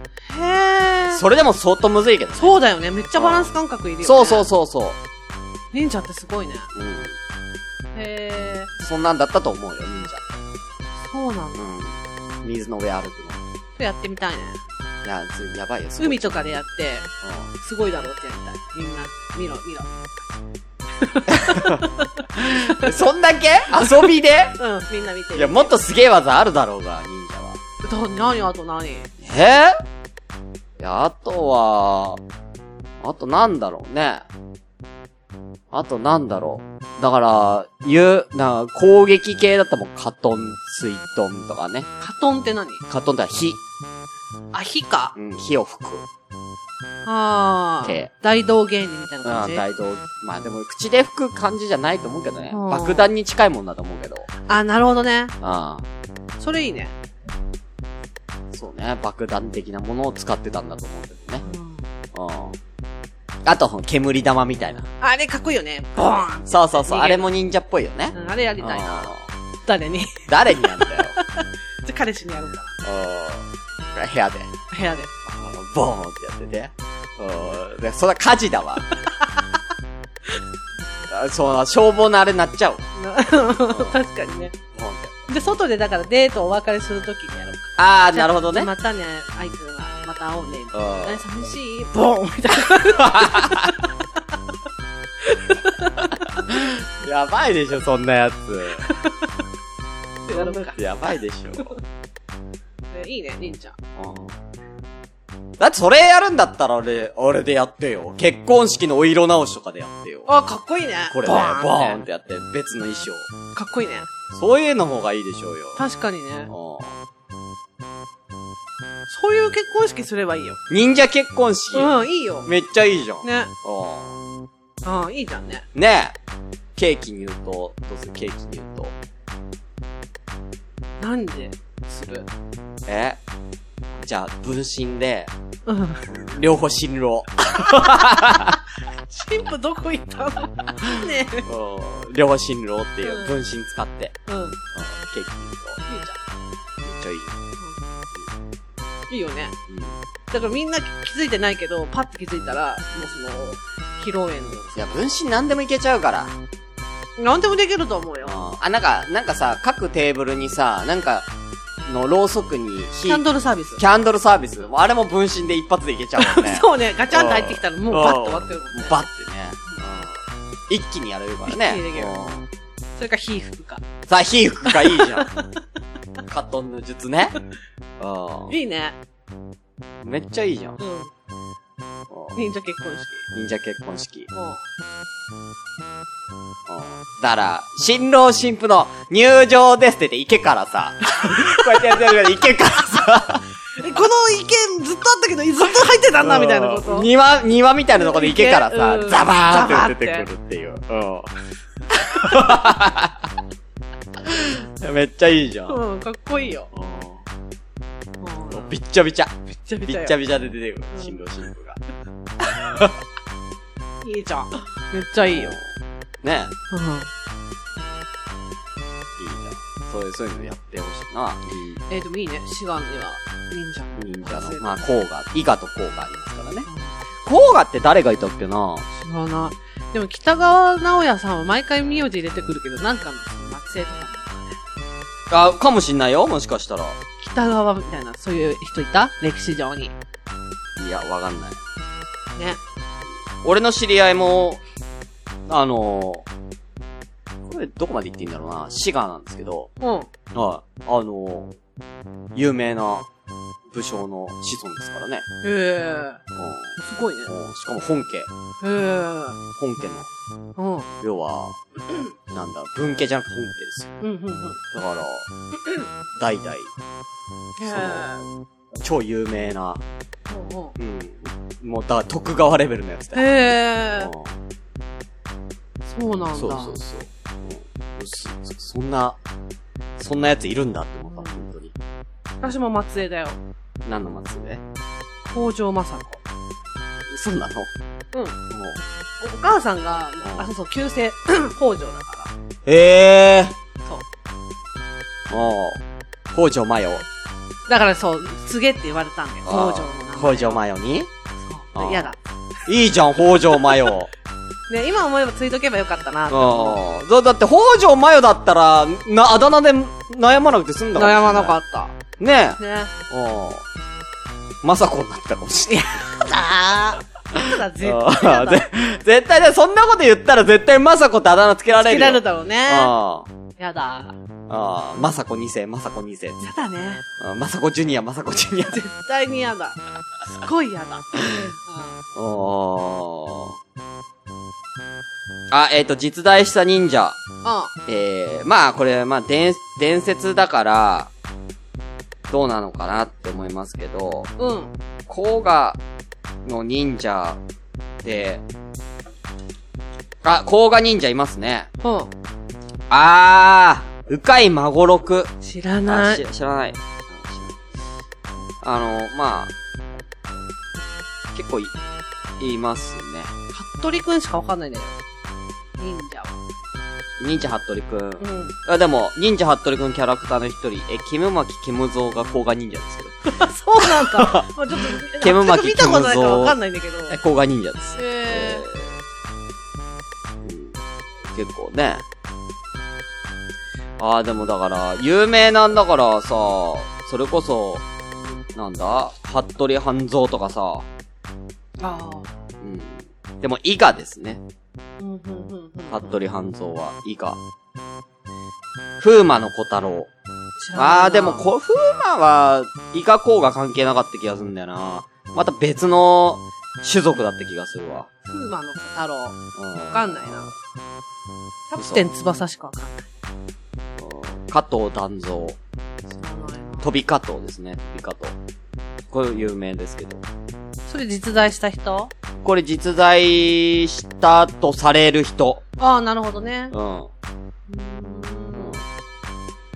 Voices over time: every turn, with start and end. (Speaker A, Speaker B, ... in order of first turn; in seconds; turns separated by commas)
Speaker A: 0.2-1.2, Speaker B: 1.1-2.6, Speaker A: 2.4-4.5, Speaker B: 3.1-5.0, Speaker A: 5.7-6.7, Speaker B: 6.7-7.1, Speaker A: 7.9-8.7, Speaker B: 8.8-10.4, Speaker A: 11.0-11.6, Speaker B: 11.6-13.4, Speaker A: 13.8-14.6, Speaker B: 15.0-16.4, Speaker A: 16.0-17.1, Speaker B: 17.2-17.5, Speaker A: 17.6-20.4, Speaker A: 21.0-22.9, Speaker B: 21.3-24.6, Speaker A: 24.6-25.7, Speaker B: 25.3-27.6, Speaker A: 27.8-29.1, Speaker B: 29.2-29.8, Speaker B: 30.8-32.2, Speaker B: 33.0-34.3, Speaker B: 35.7-41.9, Speaker A: 42.0-42.8, Speaker B: 42.9-43.6, Speaker A: 44.5-45.1, Speaker B: 45.1-46.0, Speaker A: 47.0-49.6, Speaker B: 47.8-48.1, Speaker B: 49.2-54.3, Speaker A: 52.5-53.1, Speaker A: 54.5-55.3, Speaker B: 55.4-55.8, Speaker A: 56.4-56.9, Speaker B: 58.5-61.4, Speaker A: 61.4-61.8, Speaker B: 62.1-62.6, Speaker B: 63.4-64.8, Speaker A: 65.0-67.3, Speaker B: 66.5-69.3, Speaker A: 68.1-69.1, Speaker A: 69.7-72.8, Speaker B: 70.3-71.1, Speaker B: 72.8-74.5, Speaker A: 74.7-75.1, Speaker B: 75.2-78.8, Speaker A: 79.1-79.4, Speaker B: 81.1-82.8, Speaker A: 83.0-84.5, Speaker B: 84.7-85.2, Speaker A: 85.3-94.0, Speaker B: 87.8-88.7, Speaker B: 90.7-91.2, Speaker B: 93.0-93.7, Speaker A: 95.2-96.4, Speaker B: 96.5-98.9, Speaker A: 98.8-99.2, Speaker A: 100.2-100.8, Speaker B: 100.3-101.7, Speaker A: 102.9-103.8, Speaker B: 104.0-104.3, Speaker B: 105.6-110.3, Speaker A: 110.3-112.0, Speaker B: 111.1-113.3, Speaker A: 113.5-114.1, Speaker B: 114.3-115.8, Speaker A: 115.8-116.5, Speaker B: 116.5-116.9, Speaker A: 119.1-120.6, Speaker B: 120.7-121.9, Speaker A: 121.7-122.5, Speaker B: 122.4-124.2, Speaker A: 123.2-123.5, Speaker A: 124.8-125.7, Speaker B: 125.7-126.2, Speaker B: 126.8-128.9, Speaker A: 131.0-132.3, Speaker B: 132.8-133.2, Speaker B: 133.9-135.3, Speaker A: 135.7-136.0, Speaker B: 136.1-138.6, Speaker A: 137.7-138.5, Speaker A: 139.1-141.4, Speaker B: 141.4-144.2, Speaker A: 143.0-143.3, Speaker A: 144.3-144.6, Speaker B: 144.7-145.8, Speaker A: 145.9-146.2, Speaker B: 146.8-147.4, Speaker A: 149.1-149.6, Speaker B: 149.7-150.0, Speaker A: 150.3-154.9, Speaker B: 154.7-156.3, Speaker A: 157.2-158.4, Speaker B: 158.2-161.3, Speaker B: 161.8-163.2, Speaker A: 163.1-163.8, Speaker B: 163.8-172.4, Speaker A: 166.2-169.0, Speaker A: 171.5-172.2, Speaker A: 173.0-173.8, Speaker B: 174.1-175.3, Speaker A: 174.7-175.5, Speaker B: 176.3-177.3, Speaker B: 178.0-178.5, Speaker A: 178.5-178.9, Speaker B: 180.0-180.8, Speaker A: 180.8-181.1, Speaker B: 182.1-182.4, Speaker A: 182.3-183.3, Speaker B: 183.3-184.3, Speaker A: 184.3-184.6, Speaker B: 186.7-193.4, Speaker A: 191.2-191.8, Speaker A: 193.8-197.1, Speaker B: 196.2-201.3, Speaker A: 197.9-200.3, Speaker B: 201.9-203.3, Speaker B: 204.2-205.8, Speaker A: 205.7-206.7, Speaker B: 206.7-207.2, Speaker A: 208.2-208.7, Speaker B: 208.5-211.8, Speaker A: 209.6-210.2, Speaker A: 210.9-211.2, Speaker B: 212.5-212.9, Speaker A: 214.0-215.6, Speaker B: 215.2-215.7, Speaker B: 216.2-216.5, Speaker A: 216.7-217.1, Speaker B: 219.2-221.8, Speaker A: 221.9-224.8, Speaker B: 224.0-226.7, Speaker A: 226.7-226.9, Speaker B: 227.2-228.9, Speaker A: 228.9-234.6, Speaker B: 235.3-237.0, Speaker A: 237.2-239.9, Speaker B: 240.8-241.6, Speaker B: 243.4-244.6, Speaker B: 245.5-246.3, Speaker B: 247.5-249.7, Speaker A: 249.8-250.1, Speaker B: 250.3-251.5, Speaker B: 252.3-253.1, Speaker B: 253.7-255.2, Speaker A: 255.4-256.2, Speaker B: 256.3-258.3, Speaker A: 256.8-257.3, Speaker A: 258.6-259.4, Speaker B: 259.5-260.1, Speaker A: 260.6-260.9, Speaker B: 261.0-261.6, Speaker B: 262.3-263.9, Speaker A: 264.0-264.6, Speaker B: 264.7-265.3, Speaker B: 266.1-266.7, Speaker A: 267.6-268.2, Speaker B: 267.6-268.1, Speaker B: 268.7-269.8, Speaker A: 270.3-270.7, Speaker B: 270.8-273.3, Speaker A: 273.1-274.1, Speaker B: 274.0-274.3, Speaker A: 275.9-276.8, Speaker B: 276.3-279.1, Speaker B: 280.0-281.7, Speaker A: 281.1-281.4, Speaker A: 282.4-283.4, Speaker B: 283.8-284.6, Speaker A: 285.2-286.2, Speaker B: 287.1-287.7, Speaker A: 288.1-288.4, Speaker B: 288.5-288.8, Speaker A: 289.2-292.3, Speaker B: 290.2-290.5, Speaker B: 292.6-293.5, Speaker B: 295.3-295.8, Speaker B: 296.3-297.1, Speaker A: 297.7-300.6, Speaker B: 299.4-301.1, Speaker A: 301.4-302.2, Speaker B: 301.7-302.1, Speaker B: 302.6-304.1, Speaker A: 304.7-306.8, Speaker B: 306.3-311.6, Speaker A: 310.9-311.9, Speaker B: 312.2-312.6, Speaker A: 312.6-312.9, Speaker B: 313.1-313.6, Speaker B: 314.6-316.1, Speaker A: 315.7-318.7, Speaker B: 317.3-323.3, Speaker A: 321.8-322.9, Speaker A: 323.6-324.1, Speaker B: 324.5-326.6, Speaker A: 326.4-327.0, Speaker B: 327.2-328.8, Speaker A: 328.7-329.8, Speaker A: 330.3-332.0, Speaker B: 332.1-333.6, Speaker B: 335.5-337.2, Speaker A: 337.4-337.7, Speaker B: 337.9-341.1, Speaker B: 342.3-344.3, Speaker A: 344.4-344.7, Speaker B: 345.1-345.8, Speaker B: 346.4-347.4, Speaker B: 348.0-348.4, Speaker B: 350.2-351.7, Speaker A: 351.8-352.1, Speaker B: 352.9-355.3, Speaker A: 355.4-356.2, Speaker B: 355.9-357.6, Speaker B: 358.6-359.5, Speaker B: 361.3-361.7, Speaker B: 362.4-363.3, Speaker A: 363.5-364.9, Speaker A: 365.8-366.4, Speaker B: 367.2-373.1, Speaker A: 368.2-368.5, Speaker A: 373.3-377.2, Speaker B: 373.8-376.6, Speaker B: 377.1-378.9, Speaker A: 377.9-378.7, Speaker B: 380.4-380.8, Speaker B: 381.3-382.0, Speaker B: 384.0-387.8, Speaker B: 388.5-390.9, Speaker A: 391.8-392.3, Speaker B: 392.6-394.4, Speaker A: 395.0-396.1, Speaker B: 395.9-397.4, Speaker B: 399.0-400.1, Speaker A: 400.6-401.5, Speaker B: 400.7-408.1, Speaker A: 408.3-409.4, Speaker B: 409.5-410.4, Speaker A: 409.9-410.5, Speaker A: 411.7-413.1, Speaker B: 411.8-412.1, Speaker B: 414.0-415.6, Speaker A: 416.1-416.9, Speaker B: 416.8-418.3, Speaker B: 419.1-420.2, Speaker A: 420.9-422.1, Speaker B: 422.4-425.6, Speaker A: 425.8-426.7, Speaker B: 426.7-427.1, Speaker A: 427.7-428.8